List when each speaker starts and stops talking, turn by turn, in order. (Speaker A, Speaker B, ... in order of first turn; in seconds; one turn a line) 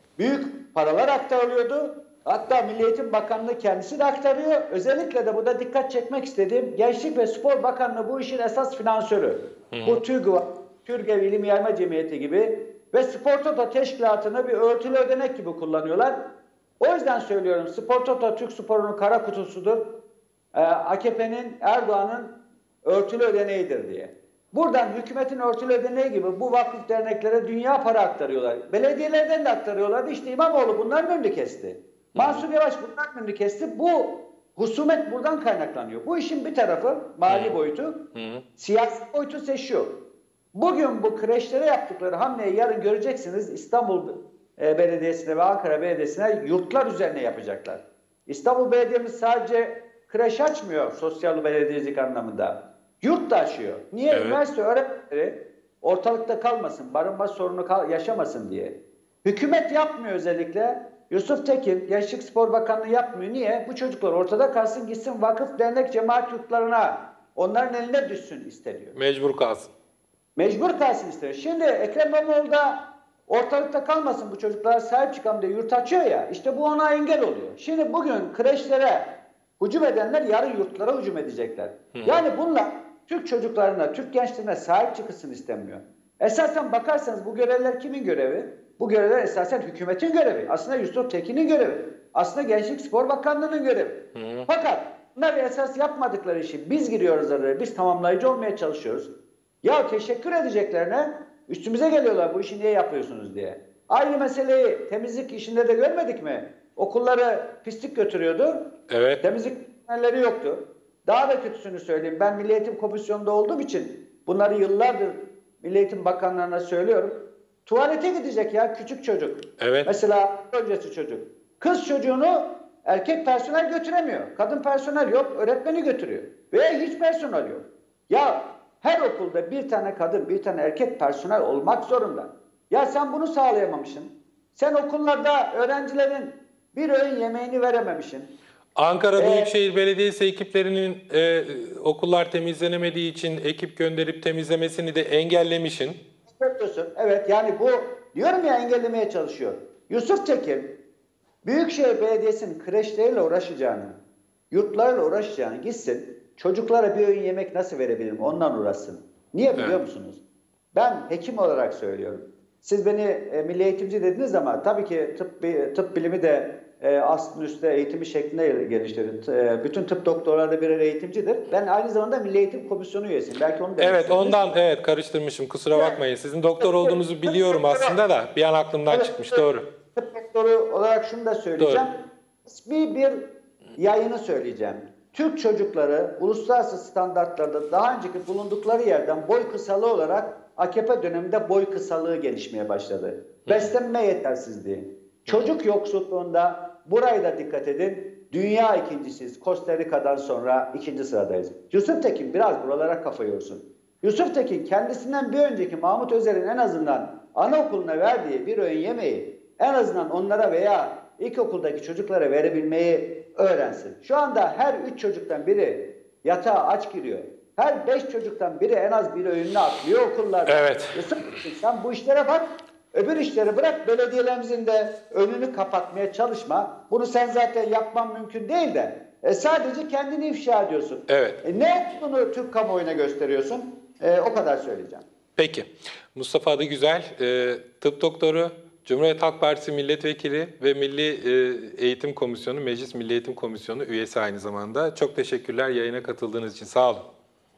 Speaker A: 0.2-16.2
Speaker B: 9.7-10.0
Speaker A: 16.8-19.8
Speaker A: 20.5-38.0
Speaker B: 32.1-32.4
Speaker B: 37.3-37.6
Speaker B: 38.1-38.4
Speaker A: 38.6-40.0
Speaker A: 40.5-69.0
Speaker B: 54.1-54.4
Speaker B: 69.0-69.7
Speaker A: 70.4-79.1
Speaker A: 79.6-99.1
Speaker B: 81.9-82.2
Speaker B: 94.2-94.5
Speaker A: 99.6-108.7
Speaker B: 108.9-109.2
Speaker A: 109.2-138.3
Speaker B: 119.6-119.9
Speaker B: 138.8-146.0
Speaker A: 139.2-139.5
Speaker A: 146.3-150.7
Speaker A: 151.4-154.0
Speaker A: 154.5-160.2
Speaker A: 160.7-174.5
Speaker B: 173.8-179.7
Speaker A: 175.7-176.0
Speaker A: 176.6-178.0
Speaker A: 178.9-181.9
Speaker B: 181.6-181.8
Speaker A: 182.4-183.2
Speaker A: 183.8-235.0
Speaker B: 193.5-193.7
Speaker B: 220.5-221.0
Speaker B: 231.1-231.4
Speaker B: 235.4-247.1